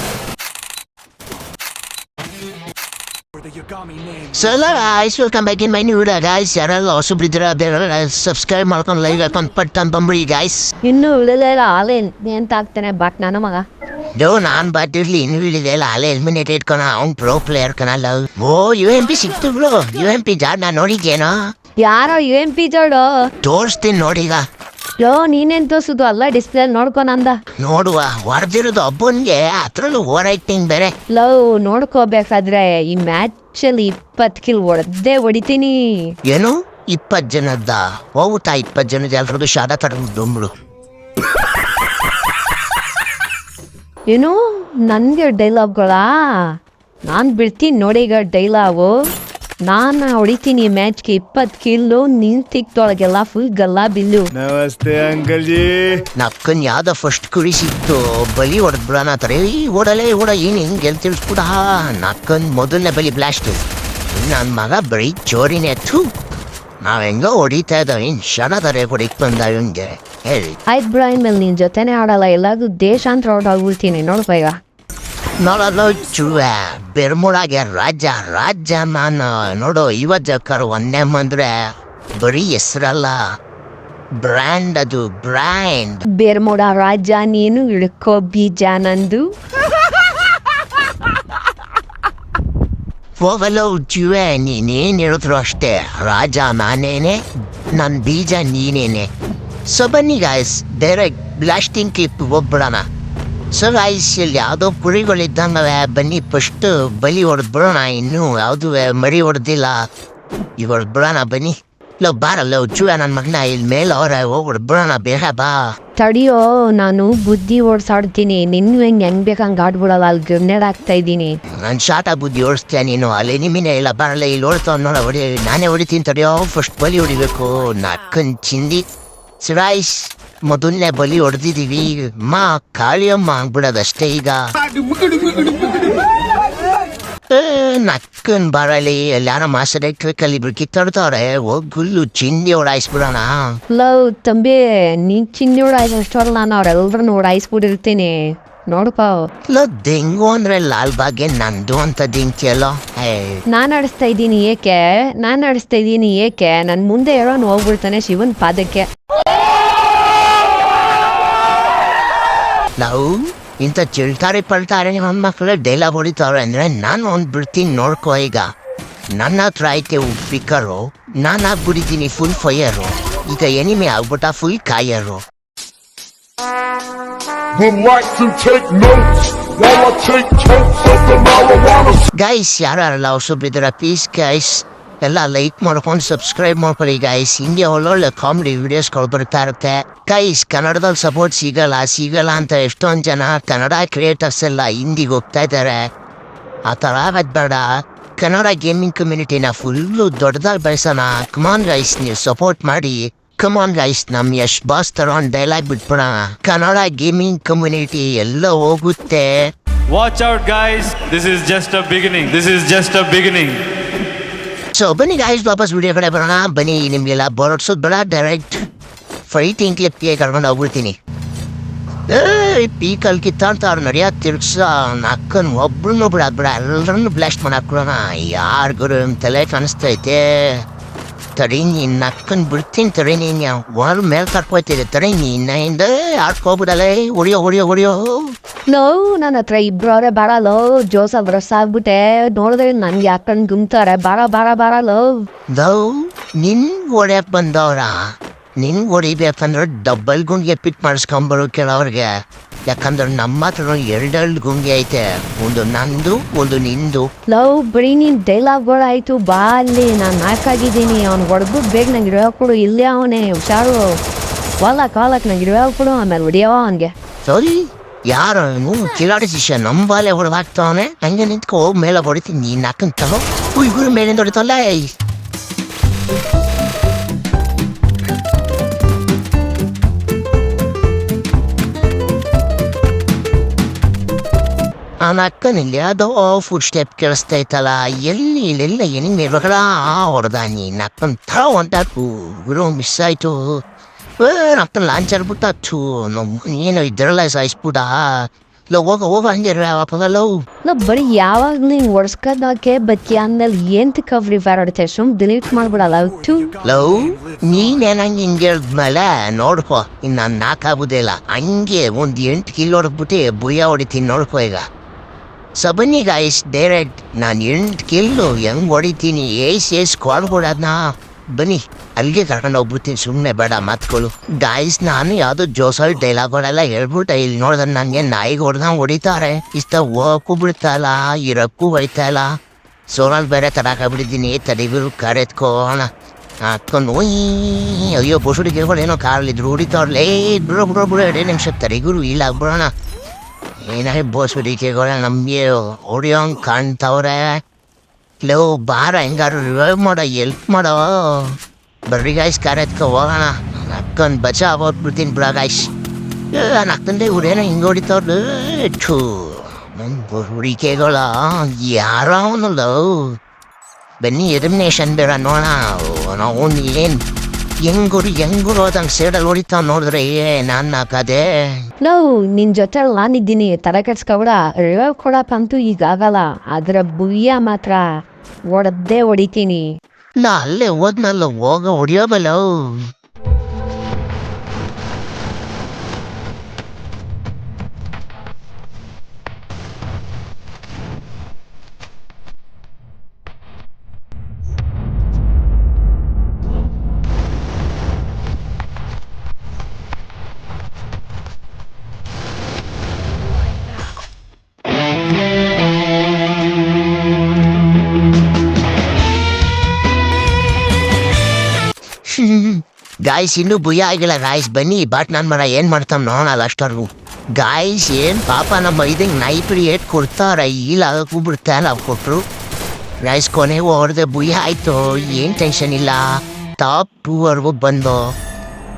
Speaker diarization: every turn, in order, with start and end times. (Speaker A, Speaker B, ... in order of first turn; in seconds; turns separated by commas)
Speaker A: 4.3-10.7, Speaker B: 10.8-13.7, Speaker A: 14.2-21.5, Speaker B: 21.8-23.3, Speaker A: 23.4-24.4, Speaker B: 25.0-27.4, Speaker A: 27.6-30.9, Speaker B: 31.1-36.1, Speaker A: 36.3-40.5, Speaker B: 44.1-49.0, Speaker B: 49.7-54.3, Speaker C: 54.4-56.0, Speaker A: 56.2-66.1, Speaker A: 66.8-70.6, Speaker B: 70.7-74.6, Speaker A: 75.4-81.6, Speaker A: 82.2-83.3, Speaker A: 84.2-86.0, Speaker B: 86.1-89.3, Speaker A: 93.2-99.1, Speaker A: 99.7-102.8, Speaker A: 103.5-109.9, Speaker A: 110.6-115.6, Speaker B: 116.0-121.4, Speaker A: 121.6-128.8, Speaker A: 129.4-134.4, Speaker A: 137.3-143.6, Speaker B: 143.7-149.3, Speaker A: 149.5-153.4, Speaker B: 153.5-158.9, Speaker A: 162.8-168.5, Speaker A: 169.1-175.2, Speaker D: 177.5-182.0, Speaker A: 182.1-195.9, Speaker A: 196.7-209.5, Speaker C: 209.9-213.6, Speaker A: 214.7-218.6, Speaker A: 219.3-221.0, Speaker A: 222.1-230.7, Speaker A: 231.4-238.3, Speaker B: 238.7-245.3, Speaker A: 245.5-248.1, Speaker A: 248.6-252.1, Speaker A: 252.7-257.1, Speaker B: 257.3-264.0, Speaker B: 264.6-266.9, Speaker A: 267.2-274.9, Speaker A: 285.0-293.6, Speaker A: 294.2-300.4, Speaker B: 300.6-306.6, Speaker D: 306.3-307.5, Speaker A: 306.6-314.6, Speaker A: 315.6-332.4, Speaker A: 332.9-335.9, Speaker A: 336.4-342.7, Speaker A: 343.6-347.4, Speaker A: 348.2-355.7, Speaker A: 356.3-363.2, Speaker A: 364.0-367.0, Speaker A: 367.7-371.6, Speaker B: 371.8-377.9, Speaker B: 378.5-379.7, Speaker A: 380.2-382.9, Speaker A: 412.1-422.2, Speaker A: 423.0-428.1